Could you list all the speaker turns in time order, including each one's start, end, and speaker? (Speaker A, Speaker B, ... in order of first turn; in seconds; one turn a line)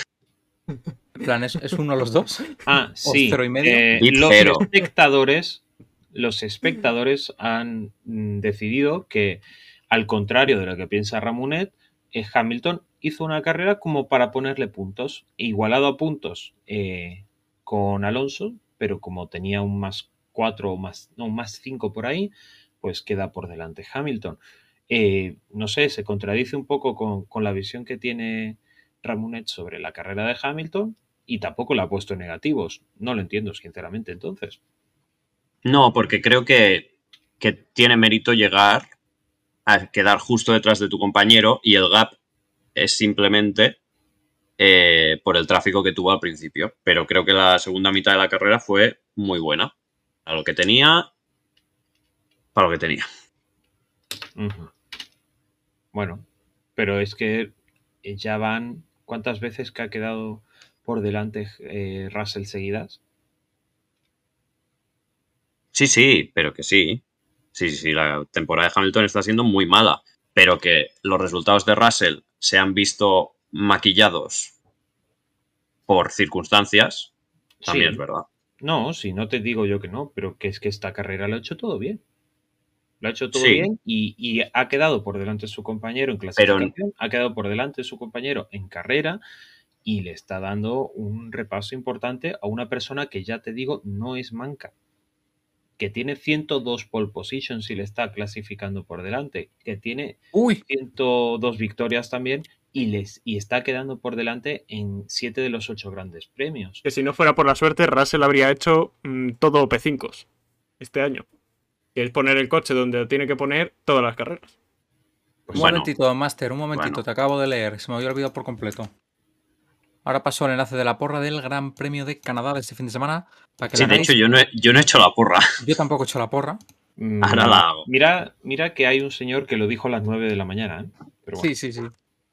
Speaker A: 1.1-3.9
Speaker B: 2.6-34.6
Speaker C: 3.9-4.7
Speaker C: 35.6-38.9
Speaker C: 39.6-42.1
Speaker C: 42.7-43.8
Speaker C: 44.6-49.7
Speaker C: 50.2-51.1
Speaker C: 52.5-53.1
Speaker B: 54.4-54.7
Speaker B: 55.9-56.2
Speaker B: 56.8-63.0
Speaker C: 65.7-67.0
Speaker C: 67.5-74.5
Speaker C: 75.9-77.1
Speaker B: 77.6-78.0
Speaker C: 77.7-78.2
Speaker B: 78.6-82.0
Speaker B: 83.0-89.2
Speaker C: 83.3-83.7
Speaker C: 86.4-86.7
Speaker B: 89.8-94.7
Speaker B: 95.8-106.8
Speaker A: 100.3-100.6
Speaker D: 106.8-110.2
Speaker D: 110.8-111.2
Speaker D: 111.9-114.5
Speaker C: 115.5-115.9
Speaker A: 115.5-118.9
Speaker C: 116.7-117.0
Speaker A: 120.0-124.2
Speaker C: 123.7-125.6
Speaker A: 125.6-126.6
Speaker B: 127.0-131.5
Speaker C: 127.2-127.9
Speaker A: 131.4-131.9